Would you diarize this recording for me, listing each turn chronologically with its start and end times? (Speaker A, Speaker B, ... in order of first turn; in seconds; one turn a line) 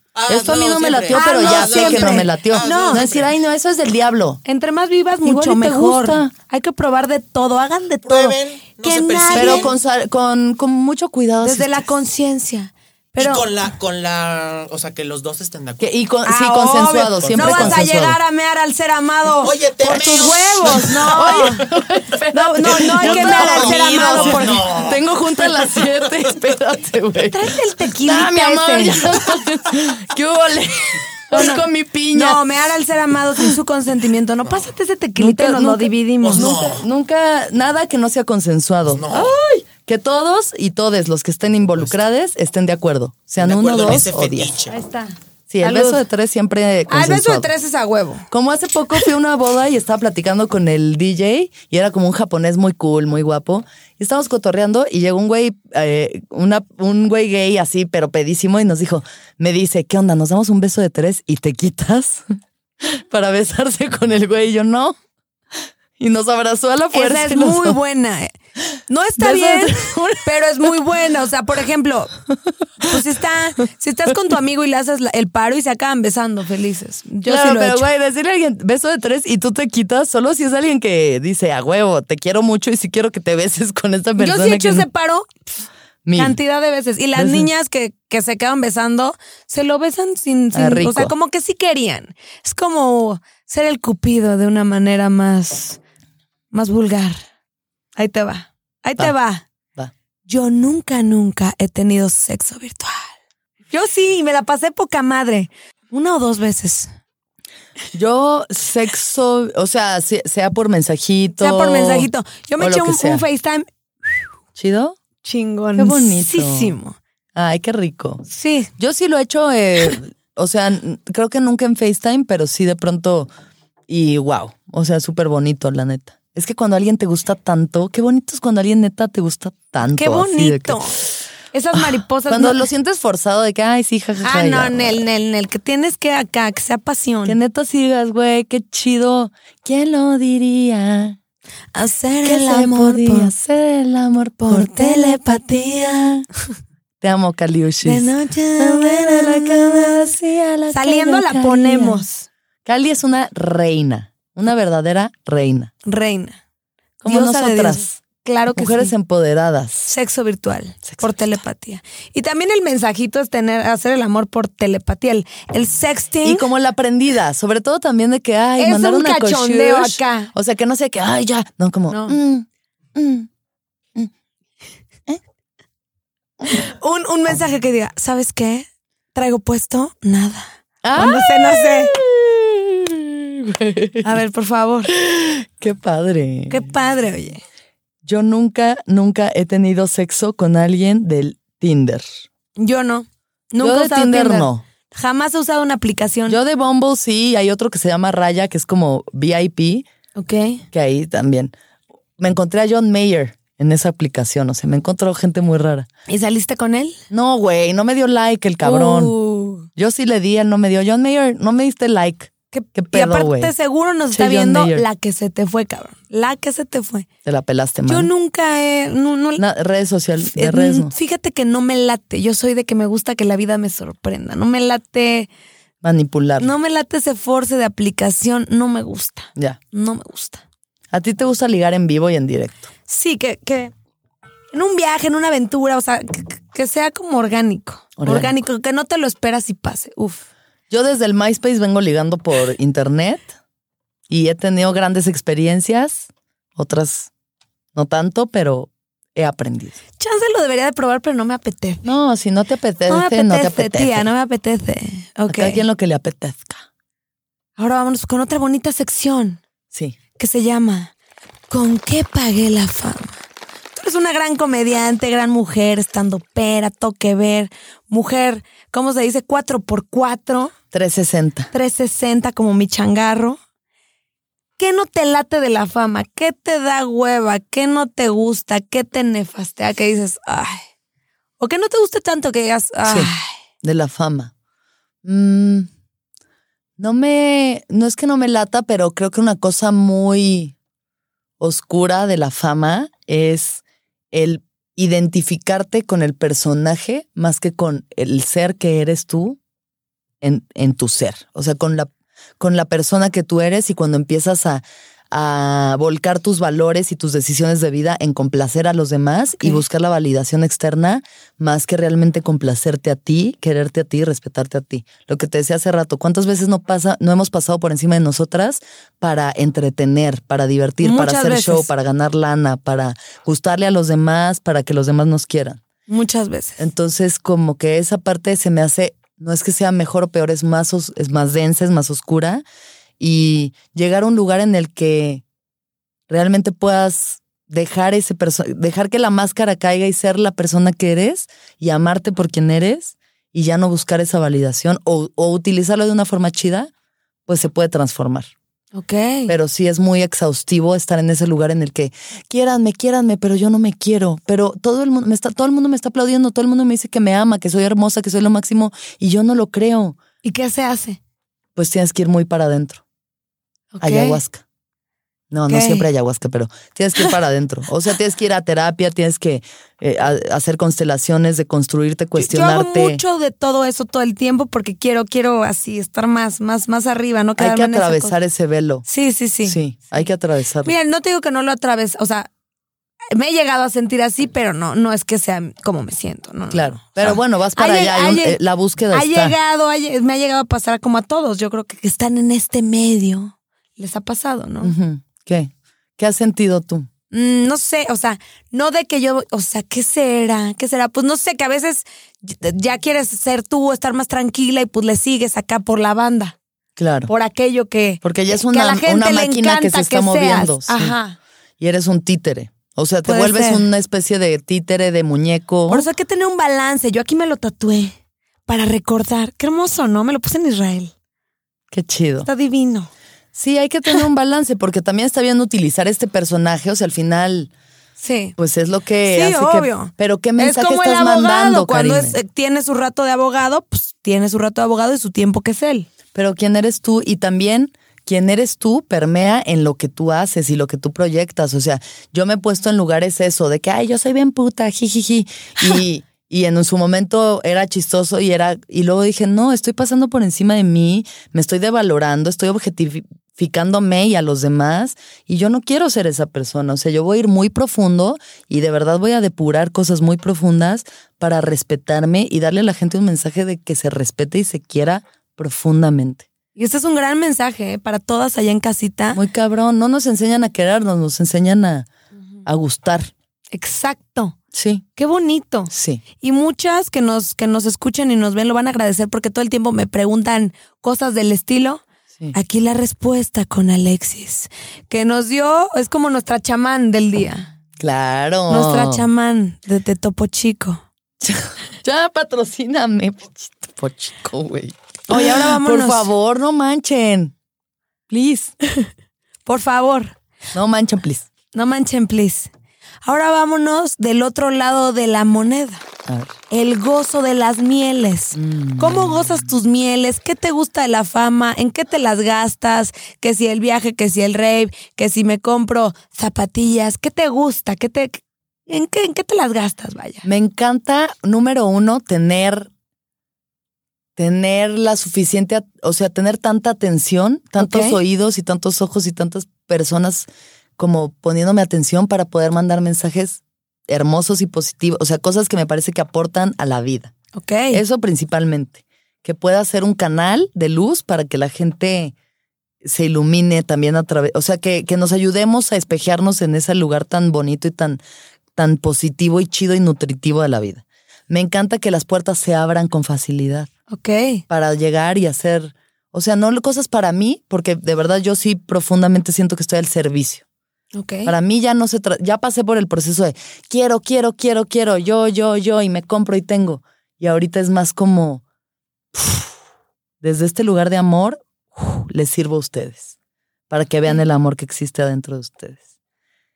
Speaker A: 0.1-3.3
Speaker B: 0.3-4.4
Speaker C: 1.1-3.1
Speaker C: 4.4-9.7
Speaker B: 5.2-6.3
Speaker A: 8.0-9.7
Speaker B: 9.3-11.8
Speaker C: 11.4-13.5
Speaker A: 13.2-15.9
Speaker B: 15.8-18.2
Speaker C: 16.2-21.7
Speaker A: 17.0-17.8
Speaker A: 19.4-22.2
Speaker B: 21.0-27.5
Speaker C: 22.3-24.7
Speaker A: 22.8-26.3
Speaker C: 27.3-29.0
Speaker B: 28.0-32.4
Speaker C: 31.3-36.7
Speaker B: 35.1-44.5
Speaker A: 36.2-36.9
Speaker A: 38.9-39.3
Speaker A: 43.4-44.8
Speaker C: 44.7-46.0
Speaker B: 45.5-47.5
Speaker C: 46.9-48.3
Speaker B: 48.3-65.0
Speaker B: 66.0-67.8
Speaker C: 66.9-68.3
Speaker C: 68.9-72.1
Speaker B: 69.2-70.7
Speaker C: 72.8-77.9
Speaker B: 77.2-84.9
Speaker C: 84.2-85.5
Speaker B: 86.0-86.4
Speaker C: 86.2-95.8
Speaker B: 87.1-87.5
Speaker B: 90.5-91.1
Speaker C: 96.5-97.2
Speaker C: 98.0-99.4
Speaker C: 100.3-103.1
Speaker C: 103.7-106.9
Speaker B: 107.9-113.2
Speaker C: 111.4-113.7
Speaker B: 114.5-115.0
Speaker C: 115.2-117.0
Speaker B: 115.8-116.7
Speaker B: 117.3-118.2
Speaker C: 118.3-118.7
Speaker B: 118.8-123.3
Speaker B: 123.9-130.8
Speaker C: 129.8-131.0
Speaker C: 131.5-132.7
Speaker B: 131.7-135.0
Speaker C: 134.2-137.4
Speaker B: 137.2-141.2
Speaker C: 141.7-143.3
Speaker B: 142.2-146.2
Speaker C: 144.4-146.0
Speaker B: 147.0-152.0
Speaker C: 147.8-150.2
Speaker C: 150.7-152.3
Speaker B: 152.6-155.7
Speaker C: 155.8-156.4
Speaker B: 157.0-159.9
Speaker C: 157.0-158.9
Speaker C: 159.9-166.5
Speaker B: 160.9-161.3
Speaker B: 166.2-173.3
Speaker C: 168.6-170.3
Speaker C: 171.9-172.2
Speaker C: 176.5-181.9
Speaker B: 180.8-184.2
Speaker C: 184.0-184.9
Speaker B: 184.9-186.7
Speaker C: 186.5-187.4
Speaker B: 188.0-192.0
Speaker C: 192.6-196.4
Speaker B: 193.6-194.6
Speaker B: 196.3-199.9
Speaker C: 200.2-200.6
Speaker B: 200.7-201.5
Speaker B: 202.2-205.9
Speaker C: 206.1-207.0
Speaker B: 207.1-209.1
Speaker C: 208.6-209.7
Speaker B: 209.7-213.5
Speaker C: 212.5-217.1
Speaker B: 214.1-214.8
Speaker B: 217.2-218.1
Speaker C: 217.8-219.4
Speaker B: 219.4-220.9
Speaker C: 220.2-225.3
Speaker B: 225.8-226.5
Speaker C: 226.4-230.4
Speaker B: 230.9-232.7
Speaker C: 232.9-233.7
Speaker C: 234.5-240.2
Speaker B: 238.0-238.3
Speaker B: 240.7-243.3
Speaker B: 244.1-247.1
Speaker B: 247.7-249.8
Speaker C: 250.0-251.9
Speaker B: 251.8-254.1
Speaker C: 252.9-255.6
Speaker B: 255.3-256.6
Speaker C: 257.6-259.4
Speaker B: 259.7-260.0
Speaker C: 260.2-260.9
Speaker C: 261.5-263.2
Speaker C: 263.8-270.5
Speaker B: 270.7-271.5
Speaker C: 271.5-273.4
Speaker C: 274.6-280.6
Speaker C: 281.4-283.3
Speaker B: 282.9-283.1
Speaker B: 283.6-284.3
Speaker B: 285.0-285.7
Speaker B: 286.8-290.5
Speaker B: 291.4-299.4
Speaker B: 300.2-325.6
Speaker C: 320.8-321.7
Speaker C: 325.9-326.6
Speaker B: 326.6-332.4
Speaker B: 333.0-335.2
Speaker B: 336.1-346.7
Speaker B: 347.3-348.3
Speaker C: 348.7-349.3
Speaker B: 349.3-360.0
Speaker C: 360.2-361.0
Speaker B: 361.6-362.8
Speaker C: 363.7-364.2
Speaker B: 363.8-364.4
Speaker B: 365.3-373.0
Speaker C: 365.5-365.9
Speaker C: 372.2-378.1
Speaker B: 377.4-378.8
Speaker C: 378.9-379.6
Speaker B: 379.4-380.7
Speaker C: 380.6-382.3
Speaker C: 383.1-388.4
Speaker B: 386.5-389.4
Speaker C: 388.9-394.7
Speaker B: 394.6-396.9
Speaker C: 397.1-406.4
Speaker B: 406.8-407.1
Speaker C: 407.1-411.2
Speaker B: 408.0-410.9
Speaker B: 411.6-415.9
Speaker C: 413.0-413.6
Speaker C: 415.7-417.9
Speaker C: 418.5-420.9
Speaker B: 421.7-422.3
Speaker C: 422.2-422.9
Speaker B: 423.3-427.5
Speaker C: 428.0-428.4
Speaker B: 428.4-432.1
Speaker C: 429.1-435.9
Speaker B: 436.1-466.3
Speaker C: 466.6-469.2
Speaker B: 469.1-471.9
Speaker B: 472.4-473.1
Speaker C: 473.5-474.4
Speaker B: 474.5-474.8
Speaker C: 474.9-481.8
Speaker B: 475.7-476.0
Speaker C: 482.3-487.5
Speaker B: 487.8-489.0
Speaker C: 488.5-490.8
Speaker B: 491.2-497.3
Speaker C: 495.1-496.1
Speaker B: 498.1-498.5
Speaker C: 499.4-500.1
Speaker B: 500.5-501.3
Speaker C: 501.5-502.5
Speaker C: 503.0-505.8
Speaker B: 506.1-506.3
Speaker C: 506.5-520.2
Speaker B: 508.3-509.5
Speaker B: 520.2-522.7
Speaker B: 524.1-537.1
Speaker C: 527.6-528.0
Speaker C: 537.3-537.8
Speaker B: 537.7-542.1
Speaker B: 542.8-548.0
Speaker B: 548.5-553.7
Speaker C: 553.9-554.4
Speaker B: 554.5-560.4
Speaker C: 560.9-561.3
Speaker B: 561.2-568.4
Speaker B: 569.1-569.4
Speaker B: 570.2-573.1
Speaker B: 573.7-575.8